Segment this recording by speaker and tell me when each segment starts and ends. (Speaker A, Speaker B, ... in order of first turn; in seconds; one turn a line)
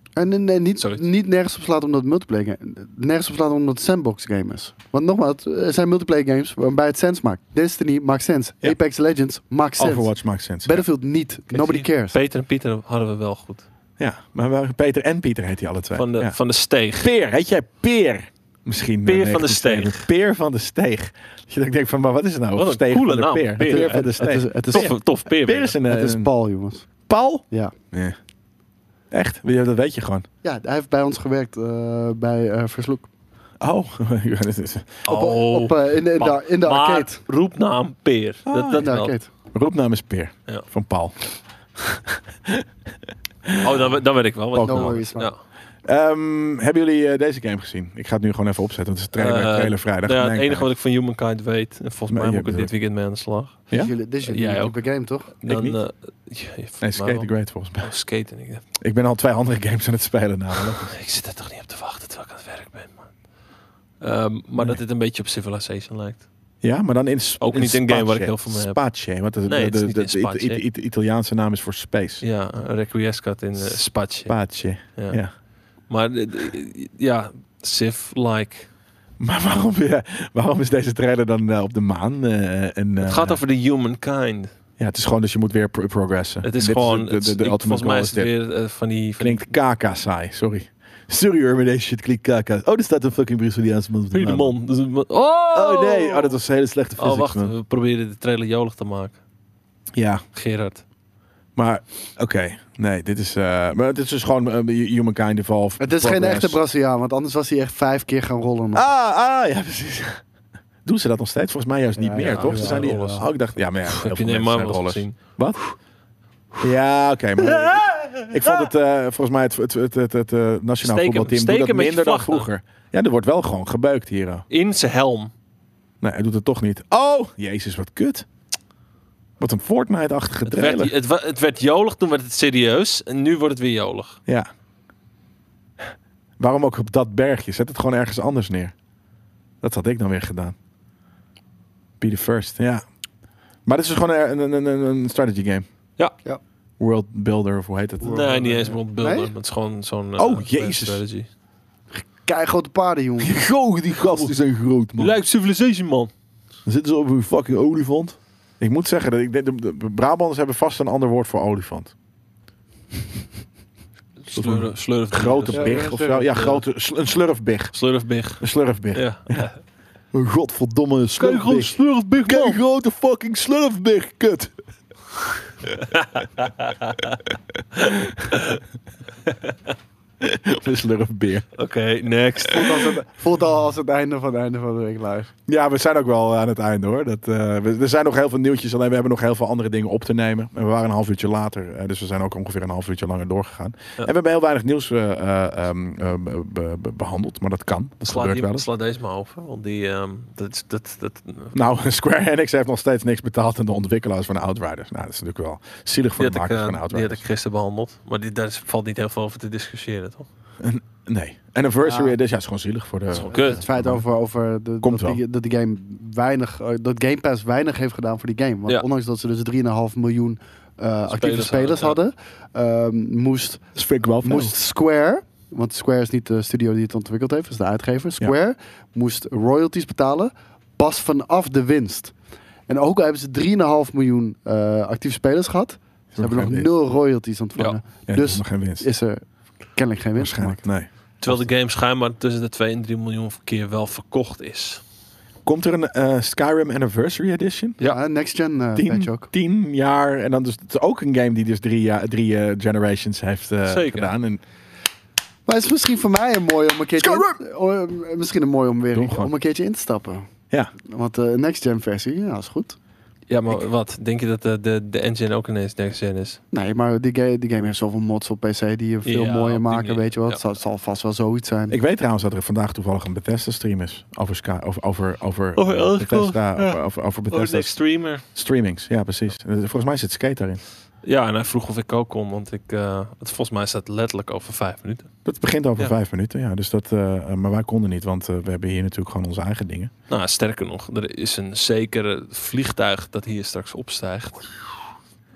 Speaker A: 0.1-10.1
Speaker B: 9.8-10.8
Speaker A: 10.6-12.2
Speaker C: 11.5-13.6
Speaker B: 14.0-16.4
Speaker C: 15.9-17.1
Speaker B: 17.0-26.3
Speaker C: 19.1-20.1
Speaker C: 22.6-25.8
Speaker A: 23.6-24.9
Speaker A: 25.9-26.9
Speaker B: 27.1-28.1
Speaker B: 29.1-30.3
Speaker A: 30.4-33.1
Speaker B: 33.6-35.0
Speaker C: 35.0-39.1
Speaker A: 35.1-37.2
Speaker B: 38.5-38.9
Speaker A: 38.7-39.3
Speaker B: 39.5-41.2
Speaker B: 41.9-42.6
Speaker B: 43.4-43.8
Speaker C: 43.6-45.4
Speaker B: 44.5-45.0
Speaker A: 44.6-45.3
Speaker B: 45.9-50.7
Speaker C: 49.2-53.6
Speaker B: 52.1-52.7
Speaker A: 53.7-55.3
Speaker C: 54.2-54.8
Speaker C: 55.3-58.6
Speaker B: 55.5-55.8
Speaker B: 56.8-57.9
Speaker B: 58.8-60.9
Speaker C: 60.6-63.1
Speaker C: 64.0-66.2
Speaker B: 66.6-72.2
Speaker C: 67.4-68.8
Speaker C: 69.4-70.6
Speaker C: 72.2-75.2
Speaker B: 73.6-75.3
Speaker C: 75.9-78.7
Speaker B: 79.2-83.4
Speaker C: 83.0-84.5
Speaker B: 84.8-88.3
Speaker C: 86.4-89.5
Speaker B: 89.2-94.5
Speaker C: 94.1-96.4
Speaker B: 95.5-97.5
Speaker C: 97.0-99.2
Speaker B: 99.9-100.2
Speaker C: 100.3-100.8
Speaker B: 101.5-106.6
Speaker A: 105.8-108.9
Speaker B: 108.7-110.2
Speaker B: 110.8-115.6
Speaker A: 112.0-113.2
Speaker C: 112.2-115.2
Speaker B: 116.6-124.5
Speaker C: 117.5-118.7
Speaker C: 120.8-122.5
Speaker C: 124.5-125.3
Speaker B: 126.0-128.3
Speaker B: 129.4-130.9
Speaker C: 130.4-134.2
Speaker B: 135.8-138.7
Speaker B: 139.6-140.5
Speaker B: 142.0-142.8
Speaker B: 143.7-145.7
Speaker B: 146.8-148.3
Speaker A: 148.0-149.3
Speaker C: 148.0-151.3
Speaker B: 150.2-151.0
Speaker A: 151.9-153.4
Speaker B: 153.2-155.1
Speaker C: 155.0-156.1
Speaker B: 156.6-161.9
Speaker C: 164.2-166.6
Speaker B: 164.3-167.8
Speaker A: 165.5-166.3
Speaker C: 167.7-169.6
Speaker B: 168.4-169.5
Speaker B: 170.1-174.5
Speaker C: 171.2-172.6
Speaker C: 176.2-177.0
Speaker B: 177.9-178.3
Speaker C: 178.3-178.6
Speaker B: 180.2-181.5
Speaker C: 181.6-182.9
Speaker A: 182.4-185.3
Speaker B: 185.5-198.7
Speaker C: 198.1-201.5
Speaker B: 201.5-207.2
Speaker C: 206.2-210.3
Speaker B: 210.6-214.0
Speaker A: 211.8-212.2
Speaker C: 213.1-213.6
Speaker A: 213.2-223.6
Speaker B: 214.8-215.2
Speaker C: 221.1-222.0
Speaker B: 223.8-224.5
Speaker A: 224.2-232.1
Speaker A: 232.7-240.6
Speaker B: 236.1-236.7
Speaker B: 238.1-238.8
Speaker B: 240.2-241.4
Speaker C: 241.2-244.8
Speaker B: 245.4-247.8
Speaker A: 247.8-249.3
Speaker B: 248.8-254.4
Speaker C: 253.7-254.1
Speaker A: 255.4-260.2
Speaker B: 257.0-257.4
Speaker B: 258.9-259.3
Speaker A: 260.8-262.8
Speaker C: 263.3-266.4
Speaker A: 266.5-271.8
Speaker C: 269.1-270.4
Speaker B: 271.7-280.6
Speaker C: 275.6-278.2
Speaker C: 281.0-285.1
Speaker B: 285.2-289.9
Speaker C: 290.1-294.5